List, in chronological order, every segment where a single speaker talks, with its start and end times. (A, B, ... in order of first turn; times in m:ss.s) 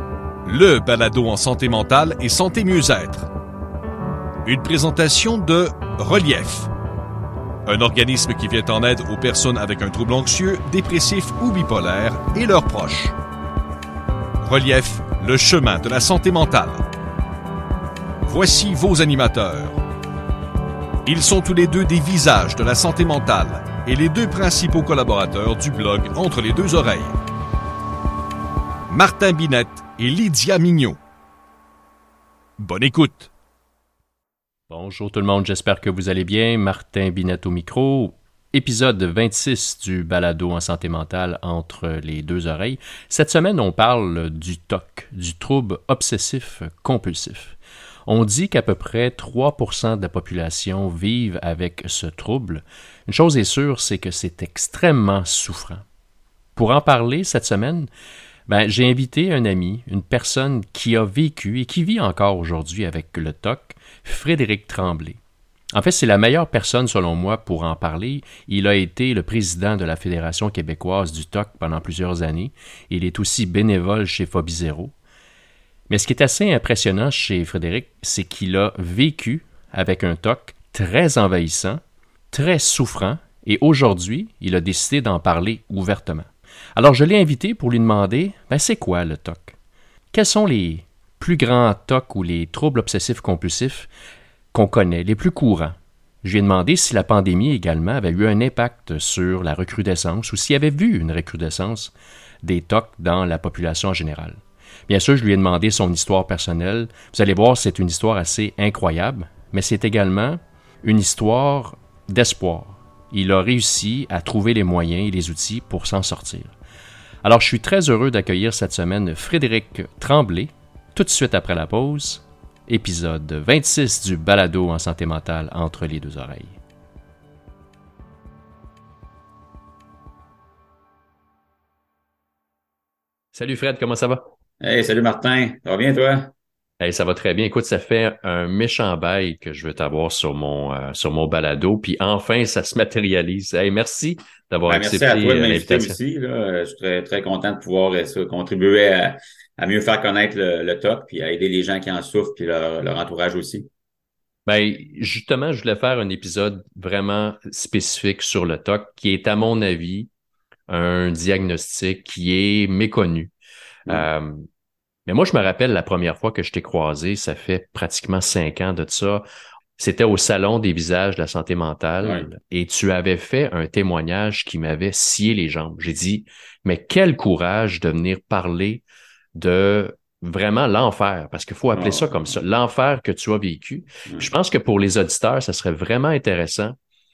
0:00.4-0:03.3 A
0:04.4-0:06.7 A
0:07.6-0:13.1 A
0:14.4-0:16.8 A
0:18.2-0:19.8 A
0:21.0-0:27.2 A
0:28.9-0:31.0 A
0:32.6-0:33.3 A
0:34.7-0:55.8 B
0:56.6-0:57.9 B
0:58.5-1:05.2 B
1:05.7-1:14.9 B
1:15.9-1:29.5 B
1:30.1-1:33.9 B
1:34.5-1:56.5 B
1:57.2-2:06.6 B
2:13.3-2:14.3 B
2:14.6-2:16.3 C
2:16.8-2:26.0 B
2:24.7-2:33.7 C
2:34.4-2:40.1 B
2:40.7-2:43.3 B
2:43.9-2:44.5 B
2:45.0-2:49.2 B
2:49.8-2:58.8 B
2:52.0-2:52.3 C
2:59.3-3:06.8 B
3:01.7-3:02.4 C